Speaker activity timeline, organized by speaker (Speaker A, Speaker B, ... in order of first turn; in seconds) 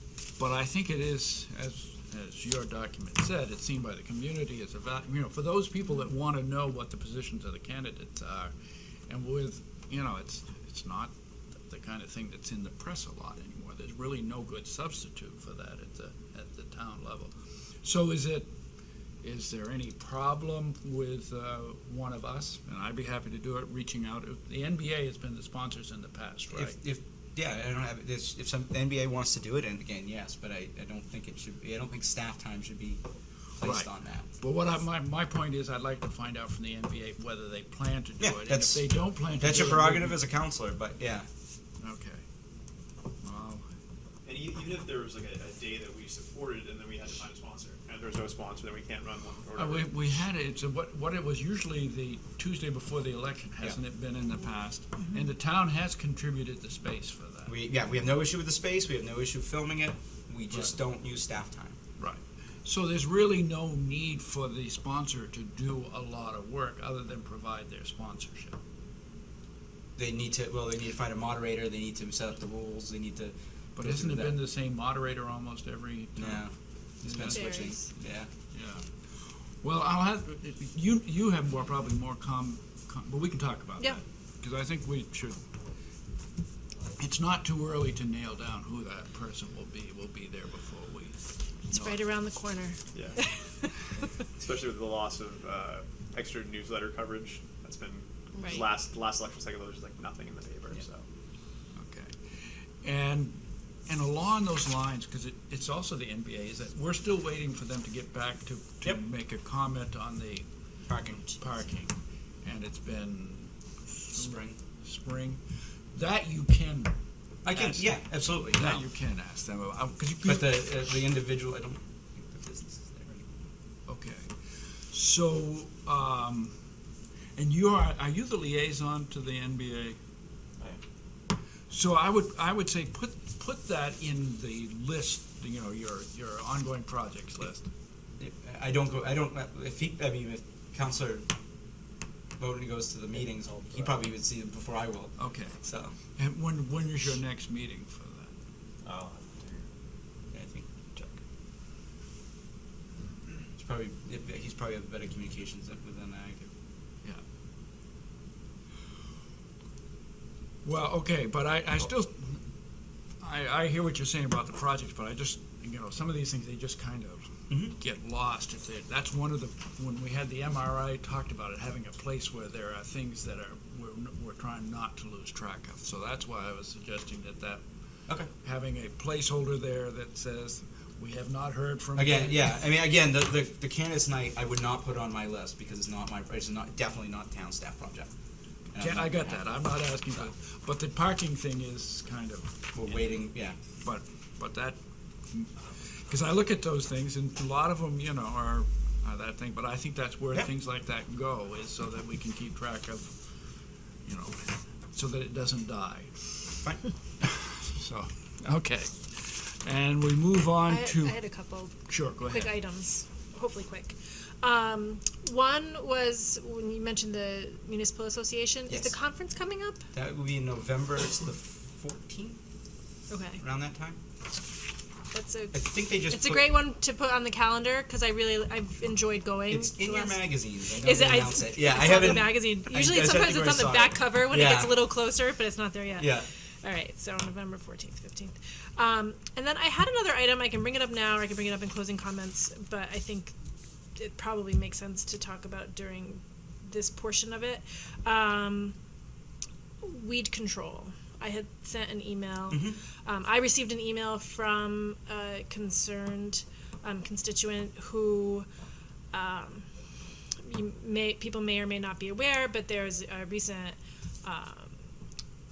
Speaker A: 0.4-8.5, 9.1-11.1, 11.6-17.3, 17.8-18.5, 19.2-26.8, 33.6-40.2, 41.8-42.2, 43.2-43.6, 49.6-57.5, 62.0-68.6, 73.8-76.4, 77.1-77.4, 78.5-78.9, 79.6-85.4, 87.0-92.0, 101.7-115.4, 115.9-116.9, 117.5-118.0, 118.5-120.6, 123.9-126.5, 127.4-130.0, 131.7-137.7, 145.2-145.6, 146.2-148.3, 160.6-162.4, 163.2-177.6, 178.4-182.6, 188.8-192.5, 193.8-194.8, 195.3-203.4, 204.1-206.6, 207.2-211.2, 211.9-212.6
Speaker B: 26.5-33.0, 33.6-34.3, 38.2-41.3, 57.5-61.8, 70.0-74.4, 76.2-78.3, 110.9-111.2, 114.2-114.6, 117.5-118.8, 120.2-123.4, 138.2-141.3, 142.4-145.9, 150.3-150.7, 153.6-156.5, 167.5-167.8, 182.0-188.1, 188.7-189.5, 192.7-193.6, 218.7-218.9, 219.9-222.4, 223.4-224.0, 225.5-226.6, 229.5-234.9, 236.0-236.3, 252.5-252.8
Speaker C: 44.2-50.0, 94.4-101.1, 148.8-149.7
Speaker D: 77.2-77.9, 91.7-93.7, 98.3-98.6, 210.7-219.8, 223.1-223.4, 225.1-243.3, 244.0-248.8, 249.8-258.5, 259.1-259.7, 260.4-264.8